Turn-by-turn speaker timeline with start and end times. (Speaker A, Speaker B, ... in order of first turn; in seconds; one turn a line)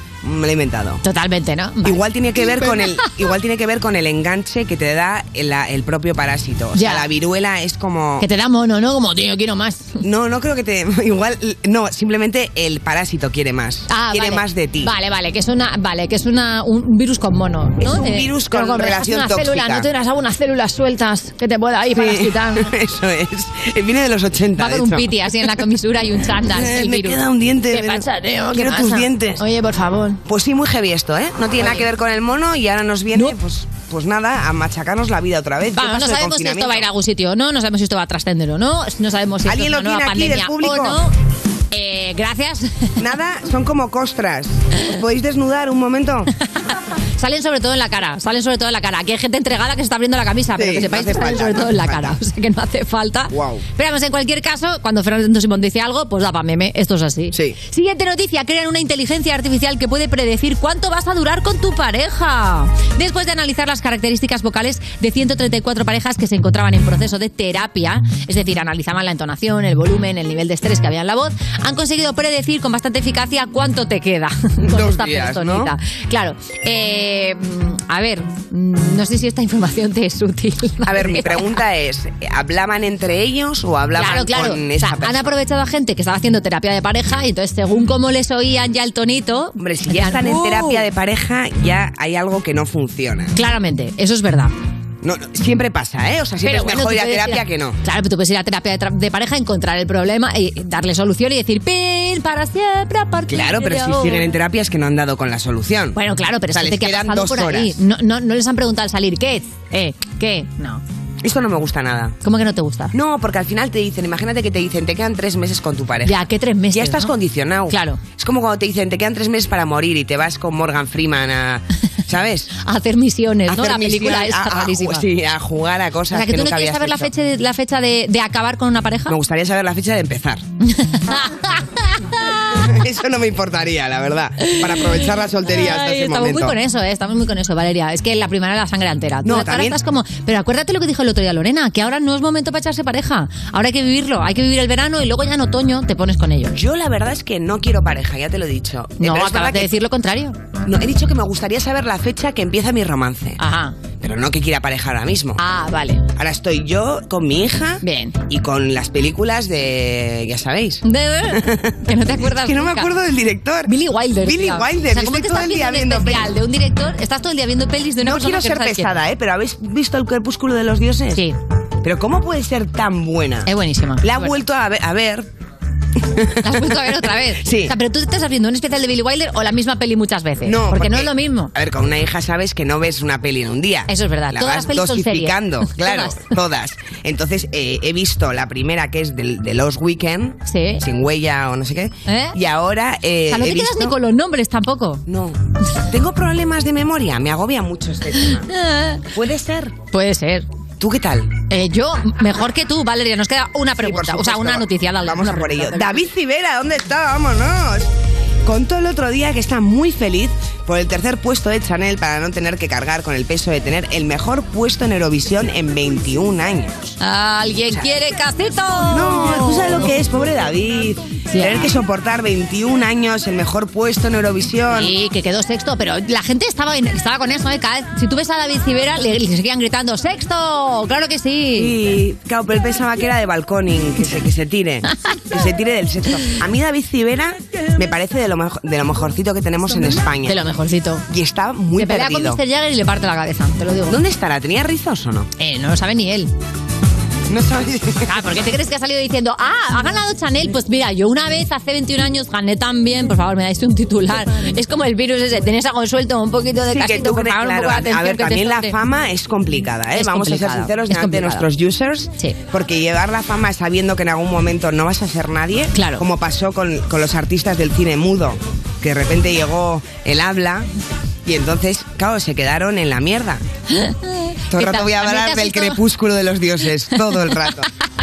Speaker A: 0.2-1.0
Speaker B: 1.0-2.8
Speaker A: 1.8-8.2
Speaker B: 6.7-7.0
Speaker B: 8.2-10.0
Speaker A: 10.0-14.9
Speaker B: 13.9-22.7
Speaker A: 17.8-19.9
Speaker A: 21.9-25.1
Speaker B: 24.6-30.2
Speaker A: 26.5-29.4
Speaker A: 30.2-36.9
Speaker B: 31.6-31.9
Speaker B: 35.8-41.1
Speaker A: 39.4-41.0
Speaker B: 41.7-42.9
Speaker A: 43.0-46.3
Speaker B: 46.5-81.6
Speaker A: 50.6-52.2
Speaker A: 53.3-53.6
Speaker A: 74.6-75.7
Speaker A: 80.8-85.3
Speaker B: 84.0-90.8
Speaker A: 89.6-93.3
Speaker B: 93.3-94.5
Speaker A: 95.0-97.8
Speaker B: 96.4-104.3
Speaker A: 103.3-106.0
Speaker B: 105.9-110.8
Speaker A: 106.5-107.7
Speaker A: 111.2-112.2
Speaker B: 112.2-112.9
Speaker A: 112.9-116.2
Speaker B: 116.0-117.1
Speaker A: 116.7-122.5
Speaker B: 117.7-118.0
Speaker B: 122.6-125.0
Speaker A: 123.5-127.1
Speaker B: 126.1-129.1
Speaker A: 129.1-130.4
Speaker B: 130.6-132.7
Speaker A: 132.6-136.6
Speaker B: 134.5-146.5
Speaker A: 139.2-139.8
Speaker A: 146.5-149.7
Speaker B: 149.0-150.3
Speaker A: 150.7-153.4
Speaker B: 153.4-153.8
Speaker A: 154.0-155.4
Speaker B: 155.4-156.0
Speaker A: 156.2-160.8
Speaker B: 157.8-158.1
Speaker B: 160.8-162.9
Speaker A: 161.3-163.7
Speaker B: 163.7-169.0
Speaker A: 164.2-166.3
Speaker A: 168.0-171.2
Speaker A: 171.8-173.5
Speaker B: 173.4-174.4
Speaker A: 174.0-175.3
Speaker A: 176.0-176.7
Speaker B: 176.4-181.5
Speaker A: 177.4-177.7
Speaker A: 180.4-193.9
Speaker B: 183.9-186.3
Speaker B: 190.4-190.8
Speaker B: 192.1-192.3
Speaker B: 193.3-195.0
Speaker A: 195.1-198.5
Speaker B: 198.5-199.0
Speaker A: 199.1-199.7
Speaker B: 199.9-200.5
Speaker A: 200.8-201.3
Speaker B: 201.5-206.0
Speaker A: 203.8-207.9
Speaker A: 208.4-216.9
Speaker B: 217.0-219.9
Speaker A: 218.9-224.9
Speaker B: 221.3-221.6
Speaker B: 224.7-231.7
Speaker A: 231.5-240.4
Speaker B: 239.7-241.1
Speaker A: 241.1-242.4
Speaker B: 241.8-244.0
Speaker A: 243.9-245.3
Speaker B: 245.4-246.3
Speaker A: 247.3-248.1
Speaker B: 248.1-258.8
Speaker A: 256.7-270.7
Speaker B: 259.9-261.4
Speaker B: 265.7-266.0
Speaker A: 271.2-273.4
Speaker B: 273.7-275.8
Speaker A: 274.5-277.7